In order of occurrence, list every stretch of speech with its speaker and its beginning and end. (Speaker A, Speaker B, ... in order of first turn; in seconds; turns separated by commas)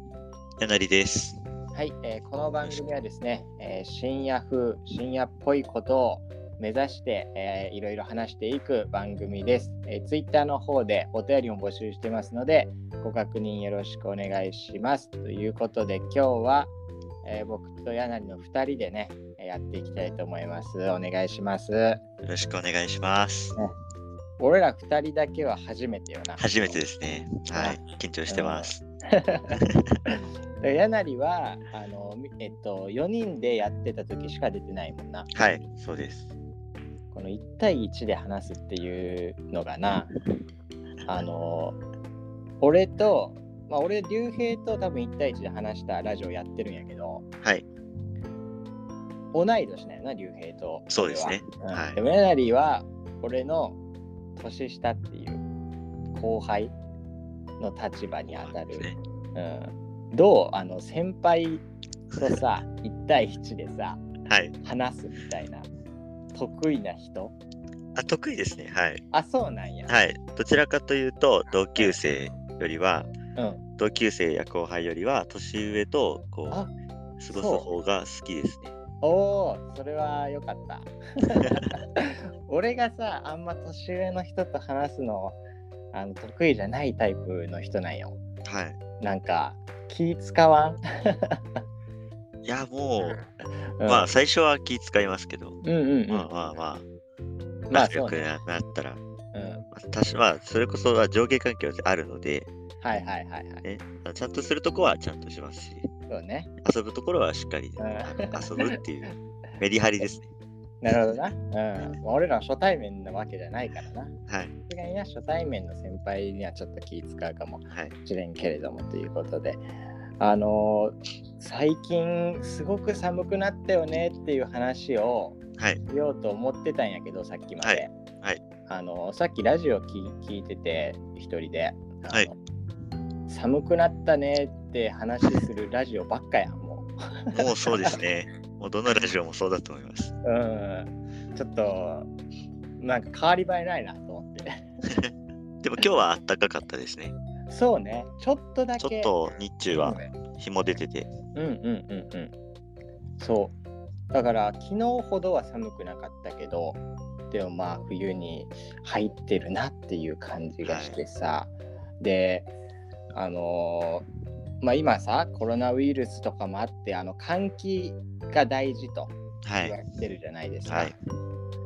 Speaker A: 0.6-1.4, Speaker B: 1.7-16.7, Speaker B: 17.2-22.0, Speaker A: 22.2-23.6, Speaker B: 24.4-26.8, Speaker A: 26.4-28.8, Speaker B: 27.5-29.7, Speaker B: 30.6-35.3, Speaker A: 35.4-36.3, Speaker B: 37.1-40.1, Speaker B: 41.0-41.8, Speaker B: 42.6-47.2, Speaker B: 49.3-53.8, Speaker A: 50.9-52.0, Speaker B: 54.4-55.4, Speaker B: 56.1-56.8, Speaker B: 57.6-61.7, Speaker A: 58.3-59.0, Speaker B: 62.2-64.0, Speaker A: 64.3-64.5, Speaker B: 64.6-65.7, Speaker B: 66.3-67.4, Speaker A: 68.0-69.0, Speaker B: 69.1-69.9, Speaker A: 69.9-73.1, Speaker B: 73.4-73.6, Speaker A: 73.8-76.6, Speaker A: 77.2-78.8, Speaker B: 77.3-77.7, Speaker B: 79.0-85.4, Speaker B: 85.9-88.2, Speaker A: 88.5-88.8, Speaker B: 89.0-91.4, Speaker A: 92.4-93.2, Speaker B: 93.8-94.1, Speaker A: 93.8-96.8, Speaker B: 95.6-96.3, Speaker A: 97.7-99.0, Speaker B: 97.7-98.3, Speaker B: 99.3-99.7, Speaker A: 99.7-102.5, Speaker B: 102.8-103.6, Speaker A: 103.6-105.9, Speaker B: 106.1-106.5, Speaker A: 106.6-110.3, Speaker B: 107.8-108.8, Speaker B: 110.8-114.1, Speaker A: 114.3-114.5, Speaker B: 114.7-119.6, Speaker B: 120.2-127.9, Speaker A: 127.6-128.4, Speaker B: 128.7-132.4, Speaker B: 133.3-138.0, Speaker A: 137.3-140.1, Speaker B: 140.2-142.1, Speaker B: 142.8-144.6, Speaker A: 145.6-147.2, Speaker B: 147.5-149.1, Speaker A: 148.8-151.1, Speaker B: 149.8-150.1, Speaker B: 151.3-152.3, Speaker B: 153.2-153.6, Speaker B: 154.1-156.8, Speaker B: 157.3-162.5, Speaker A: 160.6-161.0, Speaker B: 163.1-164.1, Speaker B: 164.6-171.0, Speaker A: 169.4-169.8, Speaker A: 170.7-170.9